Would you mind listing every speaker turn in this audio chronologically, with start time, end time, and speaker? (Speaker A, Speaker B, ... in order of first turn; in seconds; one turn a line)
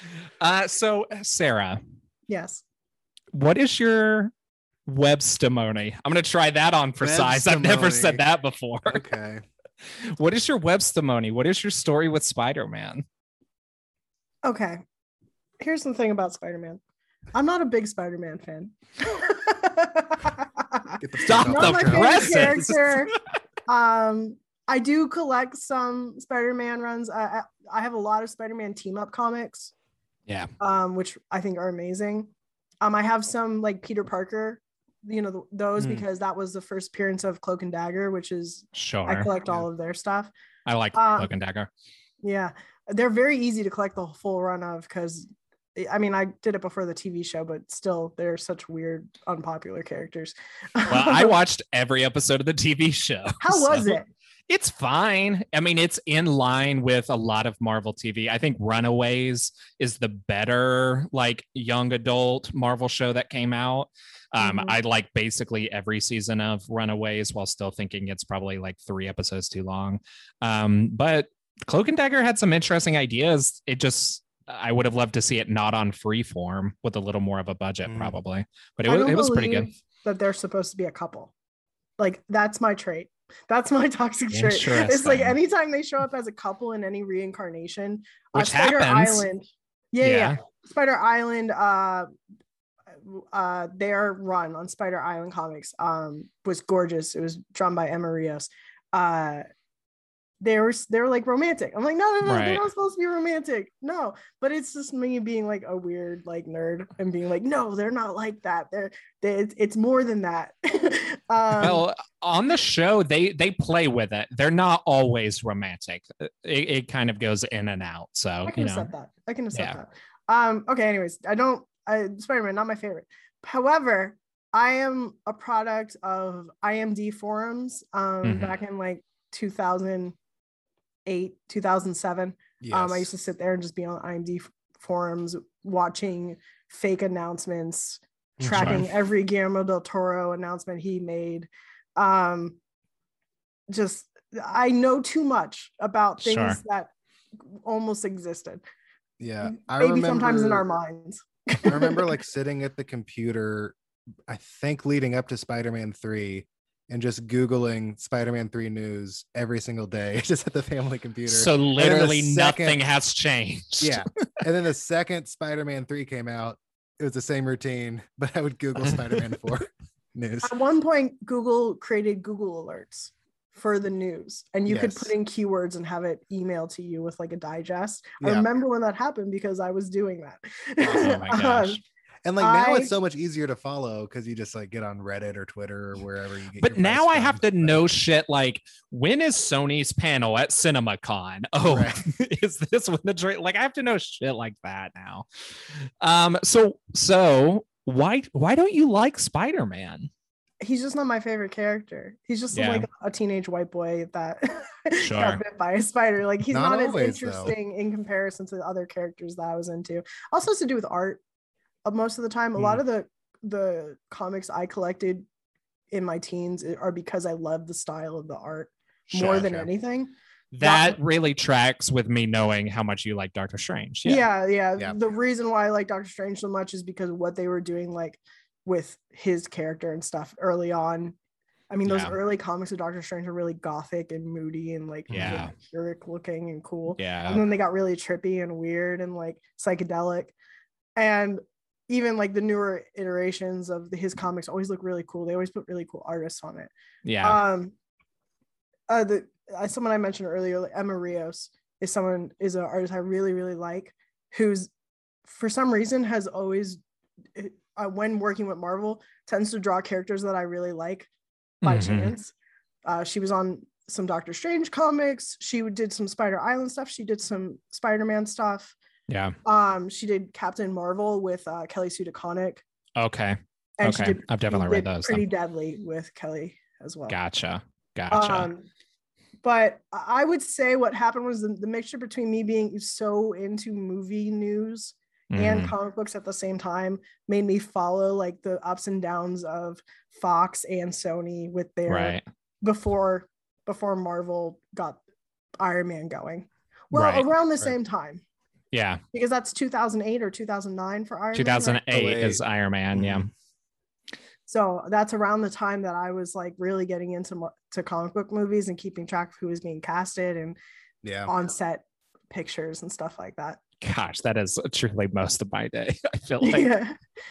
Speaker A: 0.4-1.8
Speaker B: 2.3-2.6
Speaker A: 3.3-4.3
Speaker A: 4.8-9.0
Speaker C: 7.0-8.2
Speaker C: 8.9-9.4
Speaker A: 10.0-13.0
Speaker B: 14.4-14.8
Speaker B: 15.6-16.8
Speaker B: 17.3-23.1
Speaker C: 21.0-22.5
Speaker A: 21.3-23.2
Speaker B: 23.7-29.7
Speaker B: 30.6-32.3
Speaker B: 32.8-40.3
Speaker C: 35.8-36.0
Speaker A: 38.8-39.3
Speaker A: 40.7-41.7
Speaker B: 40.9-41.3
Speaker B: 42.2-51.4
Speaker A: 50.9-54.0
Speaker B: 53.4-54.1
Speaker A: 54.5-79.7
Speaker B: 64.4-64.8
Speaker C: 77.8-78.2
Speaker B: 78.8-81.3
Speaker B: 82.0-92.1
Speaker A: 84.3-85.3
Speaker A: 88.3-89.2
Speaker A: 90.0-90.4
Speaker B: 93.0-99.5
Speaker B: 100.4-111.8
Speaker A: 102.2-102.6
Speaker A: 111.6-118.9
Speaker B: 118.5-130.2
Speaker A: 128.2-128.6
Speaker B: 131.1-142.6
Speaker C: 132.6-133.1
Speaker C: 138.4-138.9
Speaker A: 138.6-138.8
Speaker B: 143.7-148.6
Speaker A: 146.2-146.6
Speaker C: 149.2-150.6
Speaker B: 149.4-152.1
Speaker C: 151.6-153.7
Speaker C: 154.3-162.8
Speaker A: 161.3-164.1
Speaker C: 163.8-170.5
Speaker B: 170.4-181.8
Speaker C: 174.7-175.1
Speaker C: 178.2-178.5
Speaker A: 180.8-181.8
Speaker C: 181.0-181.3
Speaker C: 182.2-188.0
Speaker B: 182.4-182.9
Speaker A: 186.6-195.2
Speaker C: 191.7-192.0
Speaker A: 196.0-200.1
Speaker B: 200.6-211.2
Speaker A: 202.5-202.9
Speaker A: 205.0-205.4
Speaker C: 206.5-207.5
Speaker B: 211.8-215.2
Speaker C: 212.6-212.8
Speaker B: 215.9-221.0
Speaker C: 219.1-219.7
Speaker A: 220.5-224.3
Speaker B: 224.0-231.2
Speaker B: 231.7-240.3
Speaker A: 231.8-232.1
Speaker C: 235.1-235.4
Speaker A: 235.1-235.5
Speaker A: 237.0-237.4
Speaker B: 241.0-246.7
Speaker A: 247.0-247.4
Speaker B: 247.2-247.7
Speaker B: 248.9-254.7
Speaker B: 255.3-256.8
Speaker B: 257.4-261.1
Speaker B: 261.6-262.3
Speaker A: 261.6-262.1
Speaker B: 262.9-268.8
Speaker A: 269.1-269.4
Speaker B: 269.4-272.6
Speaker A: 273.0-275.2
Speaker B: 273.8-277.1
Speaker A: 277.1-278.5
Speaker B: 278.1-278.6
Speaker B: 279.4-295.0
Speaker A: 285.3-285.7
Speaker A: 291.9-292.2
Speaker B: 295.6-298.2
Speaker A: 296.9-297.2
Speaker A: 298.7-299.0
Speaker B: 299.1-301.8
Speaker A: 301.3-303.3
Speaker C: 301.9-302.4
Speaker C: 302.9-303.3
Speaker B: 304.5-310.6
Speaker C: 311.0-311.3
Speaker B: 311.3-313.6
Speaker A: 313.8-316.7
Speaker B: 316.4-317.0